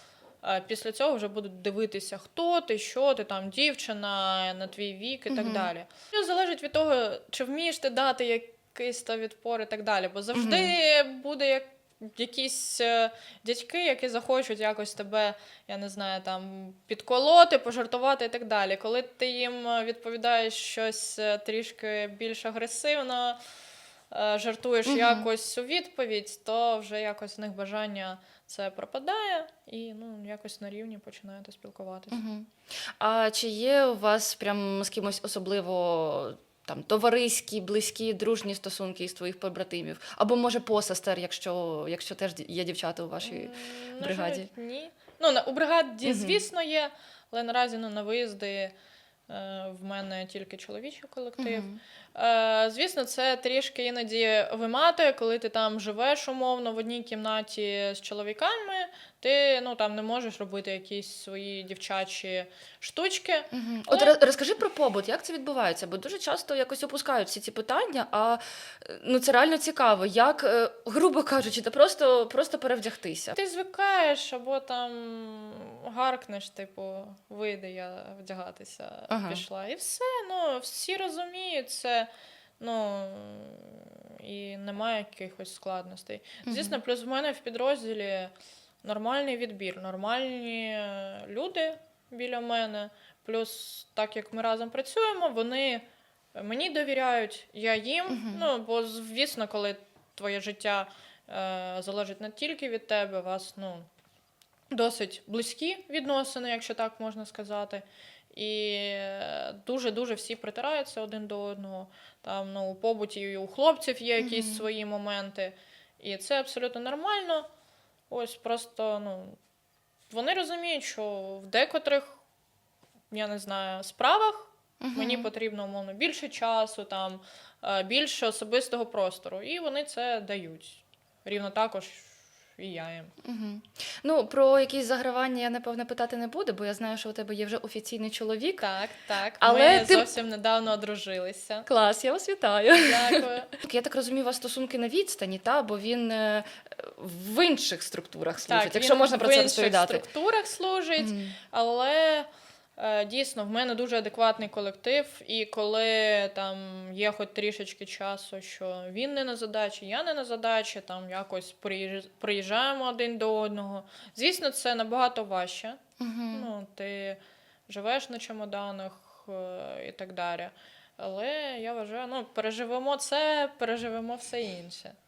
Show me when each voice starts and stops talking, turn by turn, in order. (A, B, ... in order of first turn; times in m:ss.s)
0:00.4-0:23.4 A
0:05.3-0:05.7 B
0:10.3-0:10.7 B
0:24.1-0:32.2 A
0:24.8-0:25.3 B
0:32.1-0:44.5 B
0:43.2-0:48.7 A
0:46.0-0:46.4 B
0:49.3-1:04.2 A
0:51.4-0:51.8 B
1:03.5-1:13.4 B
1:13.4-1:22.1 A
1:19.1-1:19.4 B
1:22.6-1:43.9 A
1:26.4-1:26.8 B
1:38.1-1:38.5 B
1:44.7-1:57.4 A
1:54.2-1:54.6 B
1:58.1-1:59.4 A
2:00.1-2:02.2 A
2:03.1-2:13.1 A
2:04.8-2:05.3 B
2:13.2-2:18.7 B
2:18.6-2:21.7 A
2:19.4-2:20.1 B
2:21.6-2:30.0 B
2:22.8-2:23.5 A
2:28.4-2:45.8 A
2:31.0-2:31.4 B
2:46.0-2:46.5 B
2:46.3-2:55.0 A